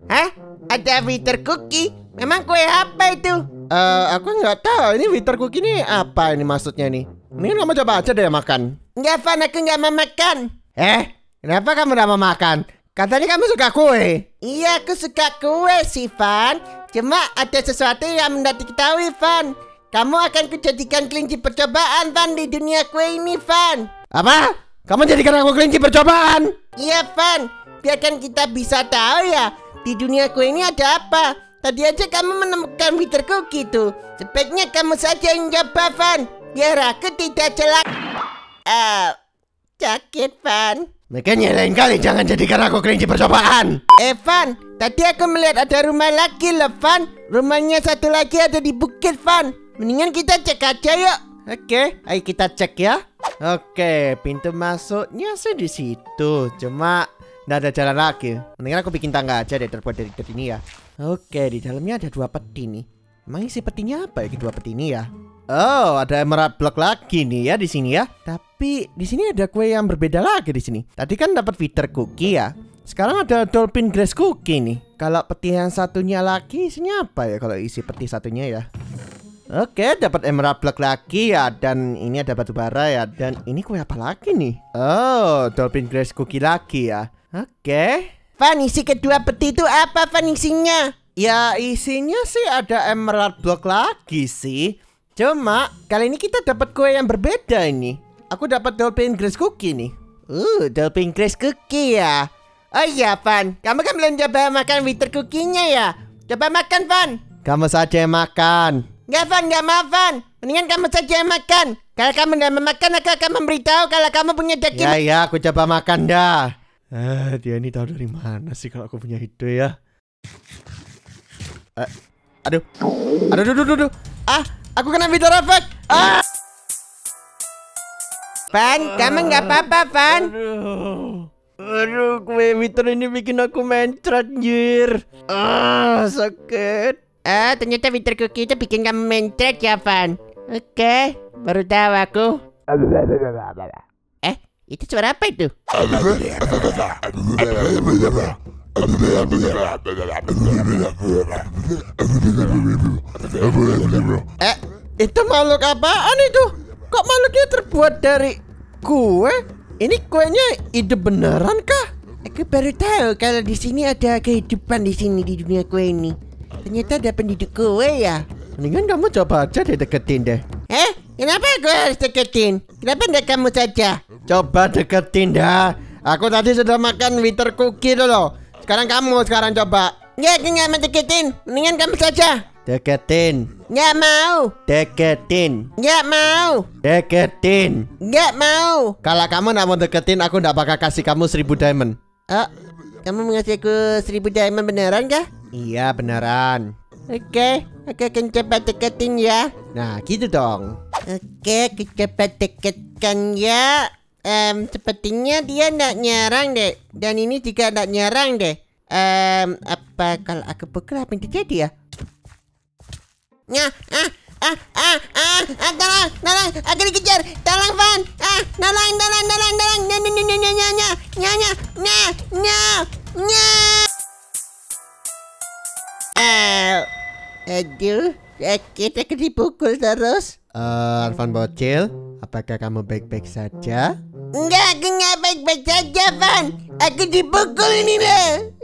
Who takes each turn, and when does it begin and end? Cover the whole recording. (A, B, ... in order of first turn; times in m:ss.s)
0:00.1-0:03.5 A
0:03.6-0:08.8 B
0:09.0-0:10.5 A
0:10.8-0:14.4 B
0:14.4-0:23.9 A
0:24.1-0:26.6 B
0:26.8-0:37.8 A
0:38.7-0:39.2 A
0:39.8-0:40.9 A
0:41.1-0:43.9 B
0:44.0-0:51.2 A
0:51.4-1:18.7 B
1:19.5-1:28.2 B
1:28.4-1:31.0 A
1:31.2-1:41.6 B
1:41.4-1:47.3 A
1:47.3-1:48.9 B
1:49.1-1:55.0 A
1:54.7-1:59.8 B
2:03.3-2:06.2 B
2:08.5-2:10.3 A
2:08.7-2:17.0 B
2:17.2-2:22.4 A
2:23.1-2:23.5 B
2:24.2-2:25.6 A
2:27.8-2:28.2 B
2:33.5-2:41.9 B
2:42.2-2:48.3 A
2:48.6-2:50.6 B
2:50.7-2:54.0 A
2:54.2-3:00.1 B
3:00.2-3:02.5 A
3:02.6-3:03.6 B
3:03.7-3:04.6 A
3:04.6-3:05.8 B
3:05.8-3:06.7 A
3:06.8-3:08.0 B
3:08.0-3:09.0 A
3:09.0-3:12.0 B
3:13.0-3:15.3 A
3:15.4-3:16.7 B
3:17.1-3:19.5 A
3:19.6-3:20.8 B
3:21.0-3:31.7 A
3:33.5-3:43.9 A
3:46.2-3:46.9 A
3:47.5-3:50.4 A
3:50.5-3:54.0 B
3:54.3-3:58.5 A